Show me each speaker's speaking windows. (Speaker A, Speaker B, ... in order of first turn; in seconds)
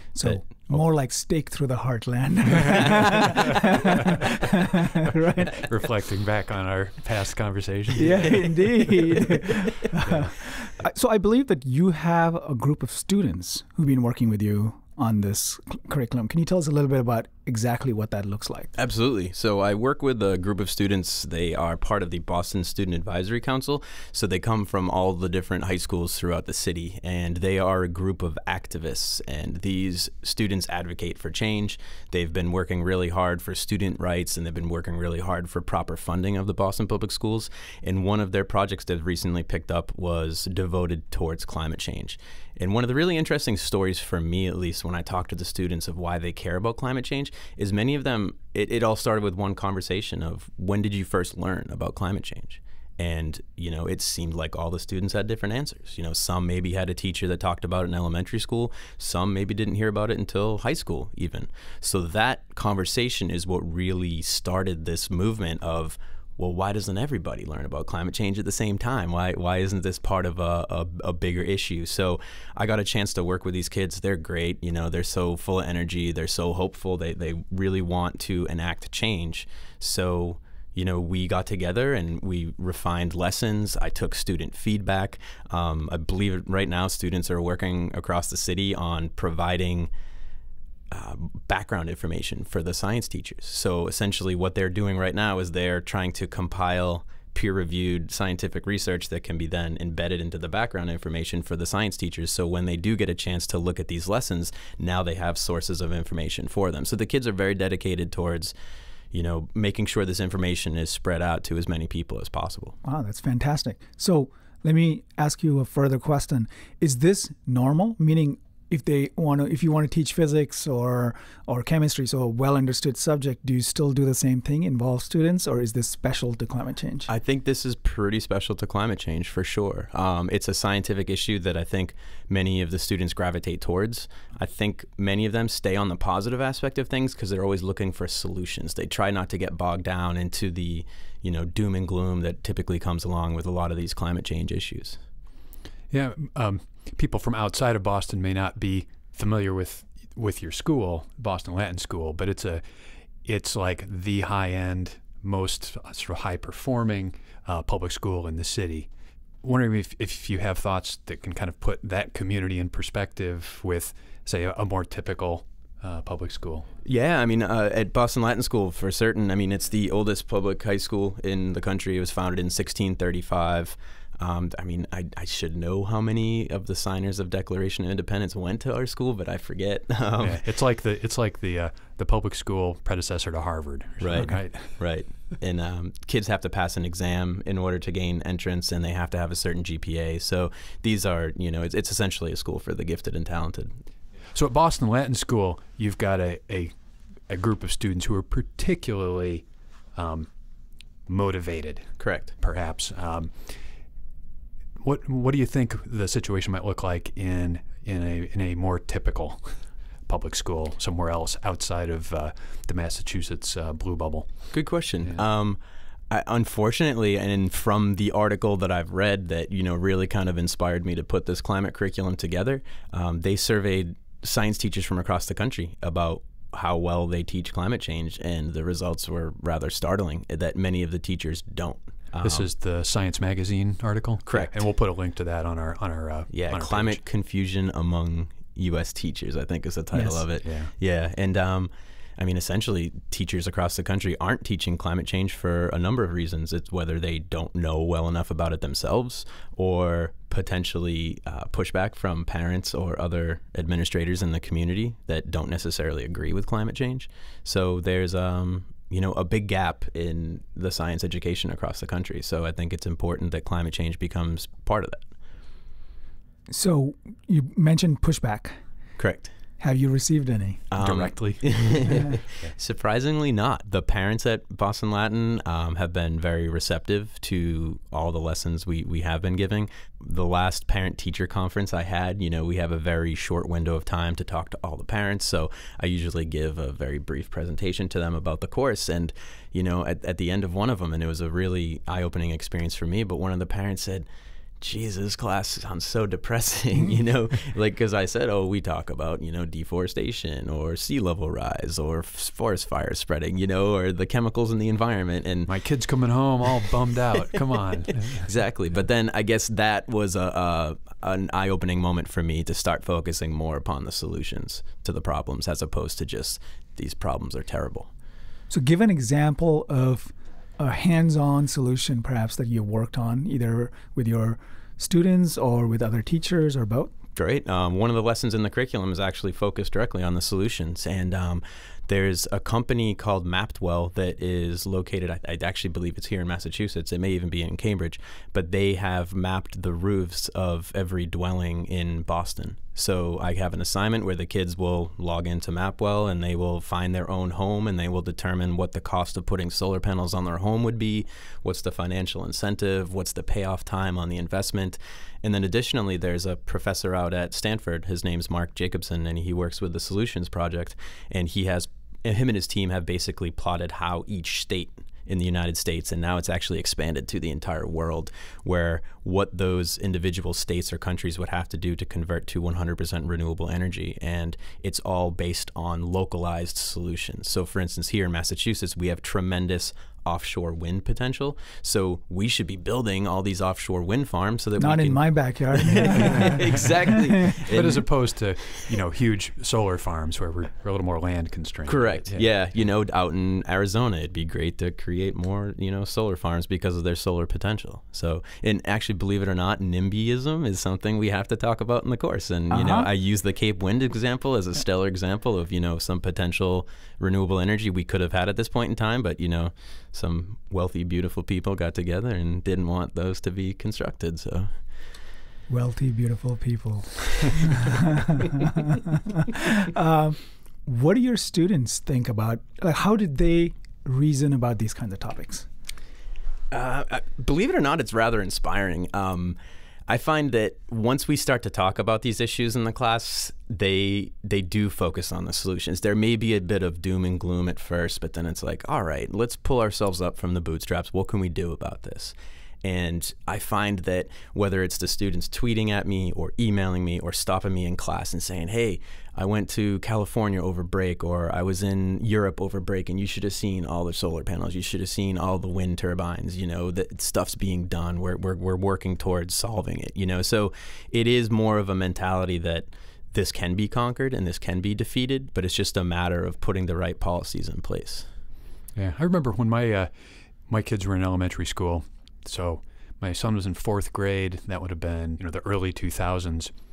Speaker A: 0.1-5.7, 8.0-18.7, 112.8-127.1, 239.9-240.2, 266.5-268.6, 269.6-270.6, 318.5-326.9, 384.6-386.4, 402.5-402.9, 415.5-418.4, 419.3-425.5
Speaker B: 0.2-0.8, 2.7-3.5, 18.8-89.9, 90.9-108.5, 109.1-112.8, 127.1-145.0, 166.8-180.4, 184.0-193.7, 202.0-202.3, 214.5-215.6, 216.1-232.5, 234.3-234.6, 236.3-265.0, 269.0-269.3, 270.7-294.1, 294.6-305.5, 308.1-317.9, 327.2-388.7, 391.7-414.5, 426.5-468.1
Speaker C: 5.6-8.7, 10.0-10.3, 145.9-152.6, 153.2-158.9, 159.4-166.7, 180.2-184.8, 194.3-196.7, 197.3-200.3, 201.1-203.6, 204.8-215.2, 232.2-237.0, 240.4-240.7, 270.8-271.8, 305.5-308.3, 385.9-392.3, 468.8-469.9, 470.5-476.6